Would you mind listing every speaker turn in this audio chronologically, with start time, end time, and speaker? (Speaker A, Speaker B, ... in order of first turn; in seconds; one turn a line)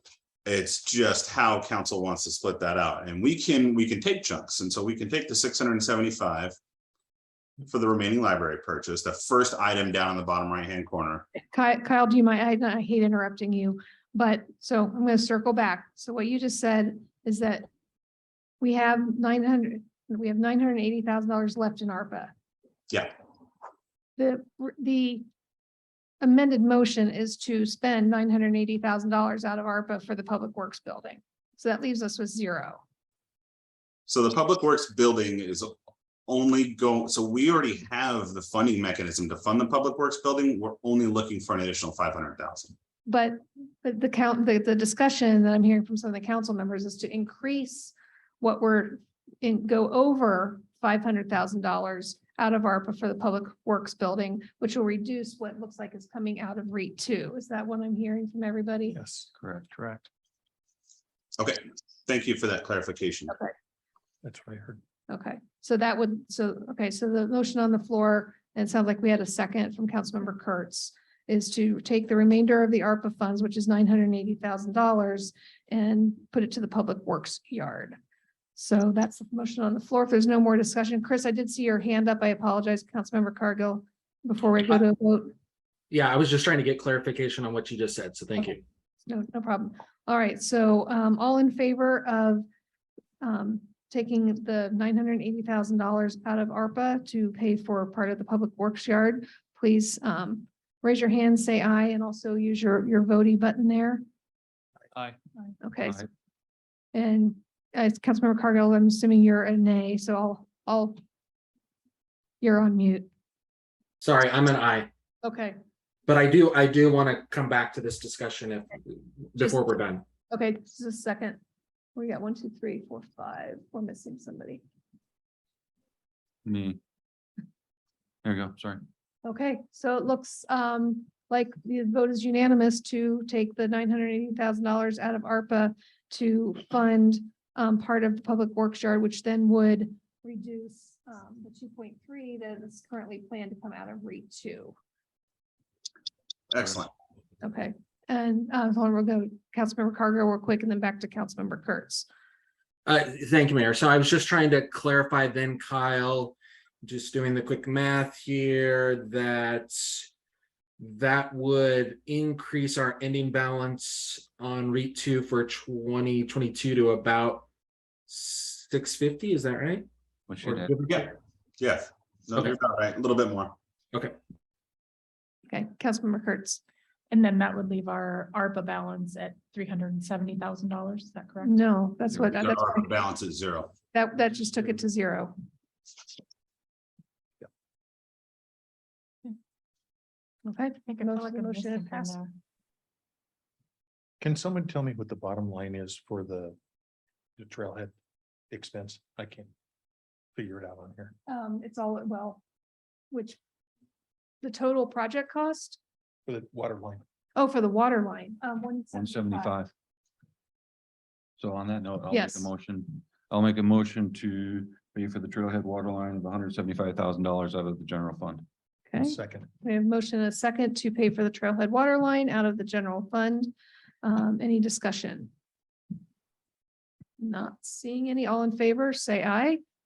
Speaker A: 0.4-6.5
Speaker A: 7.6-11.3
Speaker B: 11.3-17.7
Speaker B: 18.6-22.3
Speaker B: 24.2-25.2
Speaker B: 26.2-32.8
Speaker A: 34.1-35.7
Speaker A: 36.3-42.7
Speaker B: 43.0-59.0
Speaker C: 58.9-60.1
Speaker D: 59.4-59.6
Speaker A: 61.4-63.4
Speaker C: 64.2-64.8
Speaker B: 65.1-78.0
Speaker B: 78.5-85.3
Speaker E: 85.9-88.6
Speaker B: 89.1-92.4
Speaker B: 93.2-104.0
Speaker B: 105.6-106.0
Speaker B: 106.9-111.0
Speaker B: 112.4-113.1
Speaker E: 114.0-114.9
Speaker B: 115.2-115.6
Speaker E: 116.1-120.0
Speaker B: 119.4-119.7
Speaker B: 120.3-121.4
Speaker B: 121.9-124.6
Speaker D: 126.4-126.8
Speaker D: 128.2-128.8
Speaker B: 129.2-144.8
Speaker A: 146.5-146.9
Speaker B: 147.4-152.1
Speaker E: 152.8-160.1
Speaker E: 160.8-167.4
Speaker E: 168.1-169.9
Speaker D: 170.3-170.7
Speaker E: 170.4-171.1
Speaker A: 170.9-173.5
Speaker B: 175.5-176.6
Speaker F: 177.1-181.6
Speaker B: 181.4-182.9
Speaker A: 182.4-183.7
Speaker B: 183.9-185.3
Speaker B: 190.4-192.2
Speaker F: 190.9-192.3
Speaker C: 194.2-196.6
Speaker C: 197.4-197.9
Speaker C: 198.5-199.5
Speaker C: 200.3-201.1
Speaker B: 201.3-202.4
Speaker B: 203.1-203.4
Speaker B: 204.4-205.8
Speaker C: 206.2-207.0
Speaker B: 207.3-209.6
Speaker D: 208.9-209.7
Speaker D: 211.4-218.4
Speaker B: 212.1-212.5
Speaker B: 218.9-223.5
Speaker C: 219.0-219.5
Speaker B: 224.0-225.3
Speaker B: 227.2-229.6